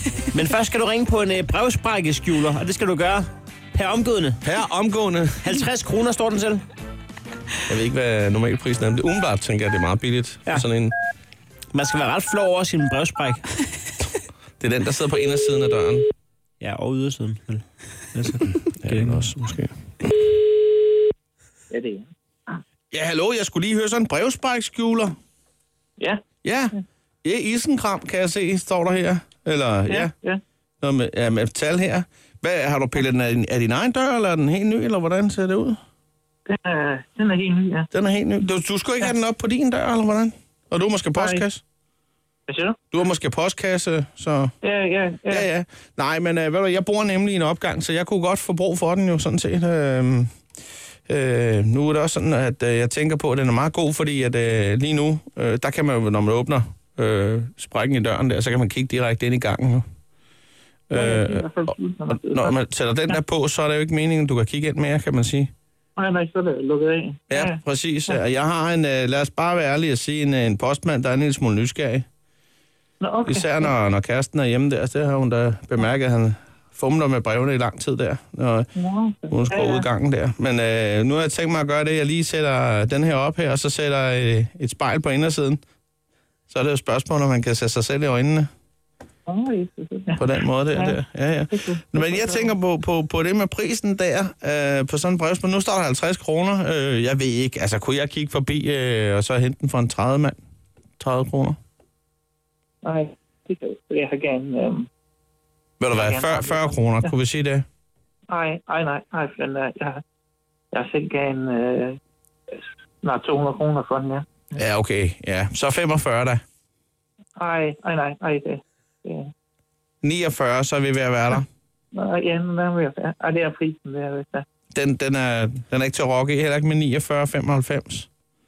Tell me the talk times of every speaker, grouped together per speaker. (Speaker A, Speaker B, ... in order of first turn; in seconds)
Speaker A: 0.3-4.4, 5.4-6.6, 11.7-13.5, 16.6-19.2
Speaker B: 4.4-5.6, 7.7-10.9, 14.6-16.1, 18.8-19.7, 22.9-25.1, 26.4-30.1, 30.8-35.8, 37.9-41.6, 42.9-44.5, 45.3-50.3, 51.1-59.8, 60.9-61.5, 62.1-65.5, 67.3-72.0, 73.2-78.7, 79.3-85.6, 86.5-88.5, 90.2-100.4, 101.0-101.6, 105.8-107.7, 114.5-116.4, 120.0-121.5, 124.7-128.1
Speaker C: 21.7-22.1, 29.9-30.4, 36.5-37.9, 41.2-41.4, 42.5-42.8, 44.6-45.5, 60.9-62.6, 66.0-67.6, 73.0-73.7, 78.8-79.8, 89.3-91.0, 91.5-92.5, 102.8-104.9, 106.0-106.7, 108.3-110.0, 110.7-112.0, 113.0-114.2, 117.4-119.3, 121.9-124.5